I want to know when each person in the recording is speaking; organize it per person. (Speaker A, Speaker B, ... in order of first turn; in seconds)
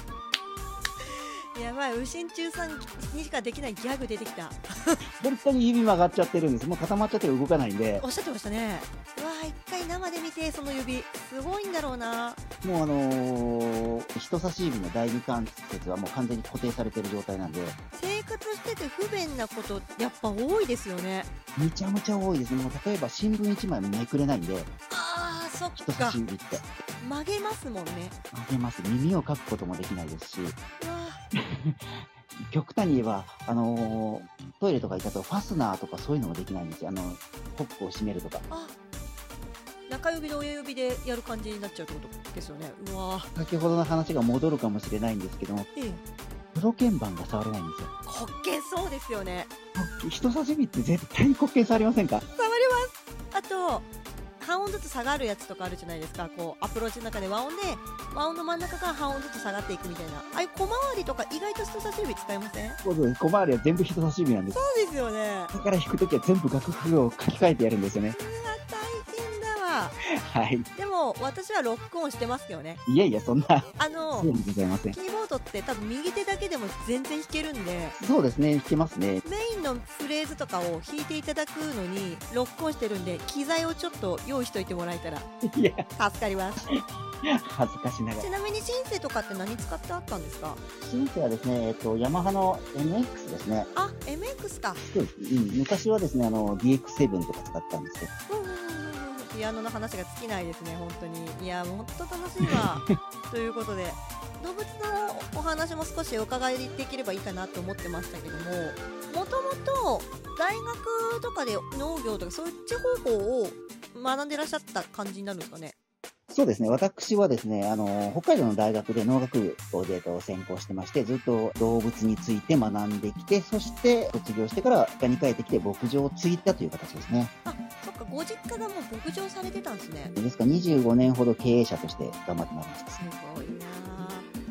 Speaker A: 1.0-5.0, 8.0-12.4, 17.9-21.3, 24.9-26.2, 27.0-28.1, 30.8-31.2, 38.5-38.7, 39.9-43.3, 45.7-46.0, 48.0-49.5, 52.3-53.9, 54.4-62.8, 64.5-65.5, 68.1-70.0, 70.7-72.8, 73.8-74.3, 74.9-78.0, 79.2-85.3, 86.0-86.7, 88.2-90.6, 93.7-94.8, 98.3-115.7, 127.4-130.1, 132.9-134.3
Speaker B: 5.2-8.0, 12.6-17.8, 21.6-24.7, 25.8-26.6, 28.3-30.6, 31.3-31.8, 32.4-38.4, 43.4-45.7, 46.5-47.9, 49.8-52.2, 62.8-64.6, 65.5-68.2, 70.1-70.7, 72.8-75.0, 78.0-79.2, 85.4-85.8, 86.7-88.3, 90.8-93.7, 94.8-98.1, 102.4-102.9, 116.3-127.3, 130.2-133.0